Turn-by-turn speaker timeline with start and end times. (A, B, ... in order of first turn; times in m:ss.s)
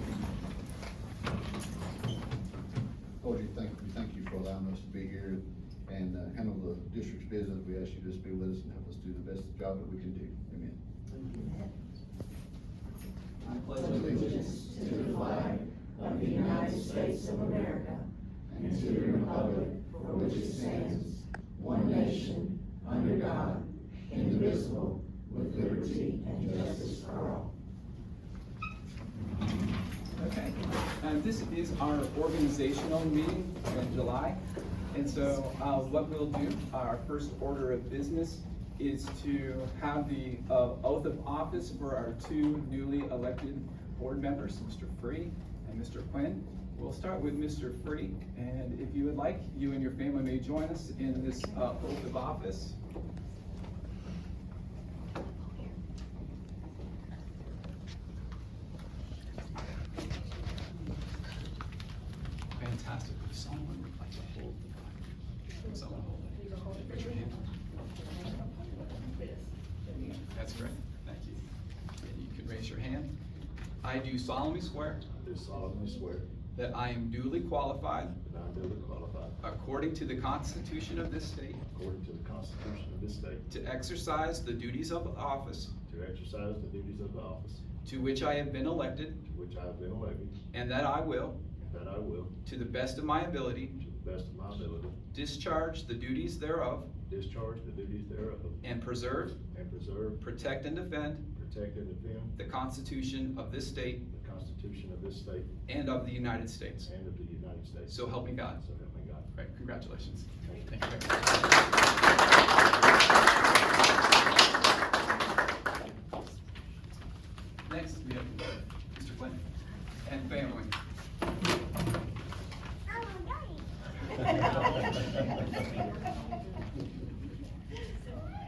0:03.2-0:10.8 A
0:11.3-0:11.7 B
0:13.4-0:14.4 C
0:13.8-0:15.4 A
0:14.7-0:18.0 B
0:18.5-0:19.6 A
0:19.2-0:21.0 B
0:21.6-0:22.6 B
0:22.8-0:23.3 A
0:23.2-0:23.6 B
0:24.1-0:24.7 A
0:24.4-0:25.0 B
0:25.3-0:27.0 A
0:25.9-0:27.4 B
0:30.2-0:34.4 C
0:34.9-0:52.8 C
1:02.5-1:07.4 C
1:08.1-1:10.0 B
1:10.1-1:11.4 C
1:12.0-1:13.1 C
1:13.8-1:15.0 C
1:15.1-1:16.3 D
1:16.5-1:18.2 C
1:18.2-1:19.4 D
1:19.4-1:21.6 C
1:21.7-1:23.4 D
1:23.5-1:25.7 C
1:25.9-1:27.6 D
1:27.8-1:29.2 C
1:29.2-1:30.4 D
1:30.5-1:31.4 C
1:31.6-1:32.3 D
1:32.4-1:33.7 C
1:33.8-1:35.0 D
1:35.1-1:36.9 C
1:37.0-1:38.6 D
1:38.6-1:39.4 C
1:39.5-1:40.2 D
1:40.2-1:41.2 C
1:41.3-1:42.3 D
1:42.4-1:44.0 C
1:44.1-1:45.5 D
1:45.7-1:46.9 C
1:46.8-1:49.3 D
1:47.9-1:48.6 C
1:49.3-1:51.4 C
1:57.6-1:59.4 C
2:00.0-2:00.7 C
2:03.1-2:03.5 B